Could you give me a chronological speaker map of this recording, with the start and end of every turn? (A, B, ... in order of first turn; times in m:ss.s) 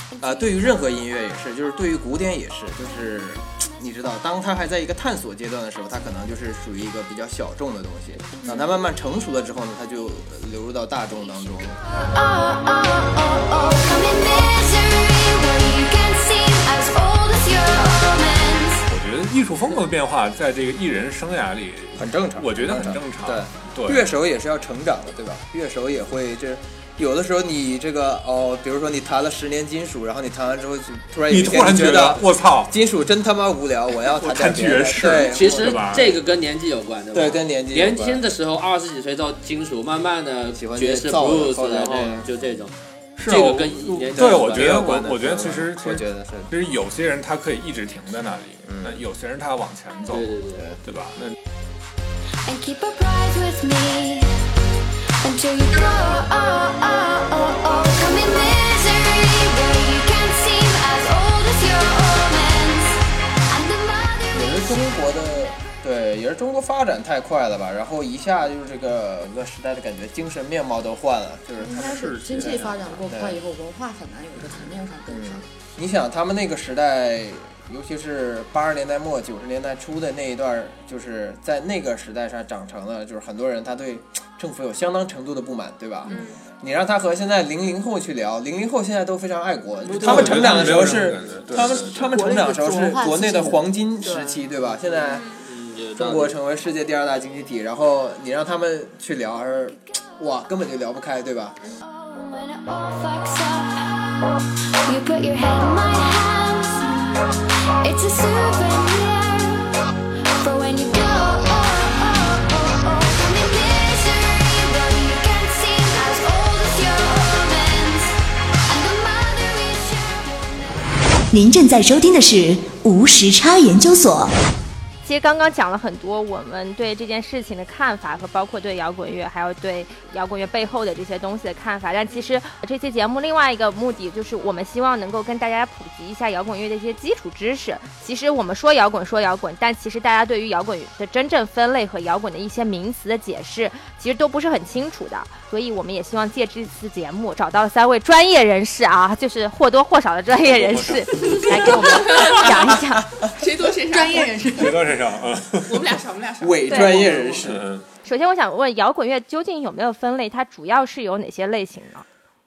0:00.2-0:11.8 A
0:08.4-0:08.7 B
0:12.1-0:18.8 C
0:18.9-0:24.1 D
0:22.0-0:36.0 A
0:31.3-0:32.7 D
0:34.0-0:36.1 D
0:35.3-0:42.7 E
0:37.1-0:38.2 A
0:40.5-0:42.3 A
0:43.2-0:50.3 D
0:43.3-0:44.7 E
0:44.1-0:46.5 A
0:48.6-0:49.0 A
0:50.1-0:50.6 E
0:50.8-0:51.3 D
0:52.4-0:54.3 C
0:55.2-1:05.5 C
1:04.3-1:13.4 A
1:11.6-1:15.4 F
1:11.7-1:13.1 D
1:15.0-1:35.2 A
1:26.1-1:26.4 B
1:29.8-1:32.2 D
1:31.7-1:34.4 F
1:34.9-1:36.4 E
1:35.0-1:35.4 B
1:36.0-1:41.6 A
1:41.8-1:44.2 C
1:44.8-1:47.3 C
1:47.8-1:49.8 C
1:50.4-1:58.2 C
1:58.7-2:00.8 C
2:01.3-2:04.3 G
2:05.0-2:33.1 H
2:12.1-2:12.3 B
2:30.4-2:31.4 D
2:31.9-2:32.5 B
2:33.3-2:34.4 B
2:33.9-2:34.9 F
2:34.5-2:35.9 D
2:35.6-2:37.5 B
2:36.4-2:37.6 A
2:36.7-2:37.1 H
2:37.4-2:37.8 D
2:38.0-2:42.0 H